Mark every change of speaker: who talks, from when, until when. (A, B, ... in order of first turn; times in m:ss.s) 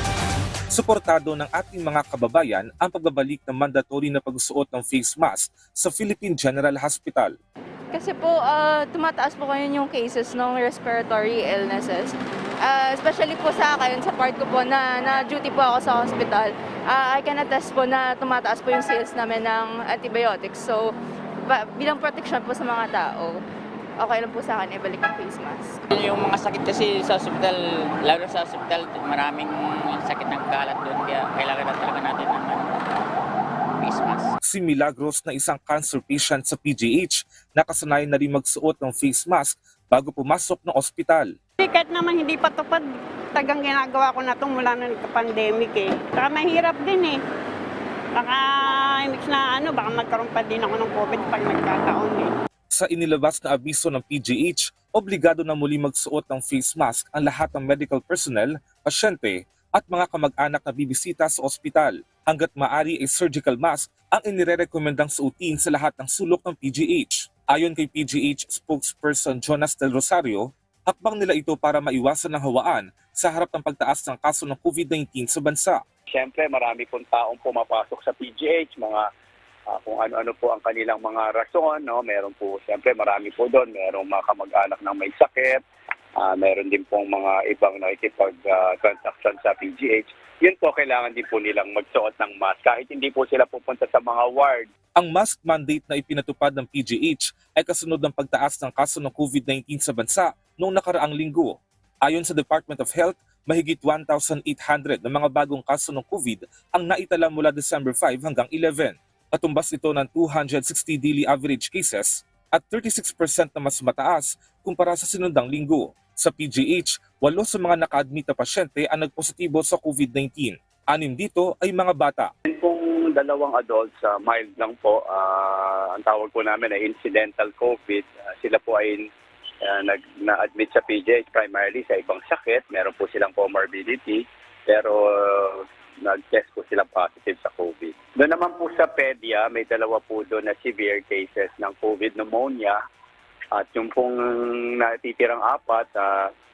0:00.7-0:07.3 A
0:07.9-0:20.9 B
0:21.5-0:23.4 B
0:24.0-0:25.8 B
0:25.9-0:32.7 C
0:33.8-0:34.3 C
0:34.4-0:41.3 A
0:41.6-0:47.2 D
0:48.2-0:52.3 D
0:52.7-1:15.8 A
1:16.1-1:19.0 E
1:19.7-1:25.6 E
1:26.2-1:34.7 E
1:35.0-2:02.3 A
2:02.5-2:09.1 E
2:09.7-2:22.8 E
2:23.6-2:26.3 E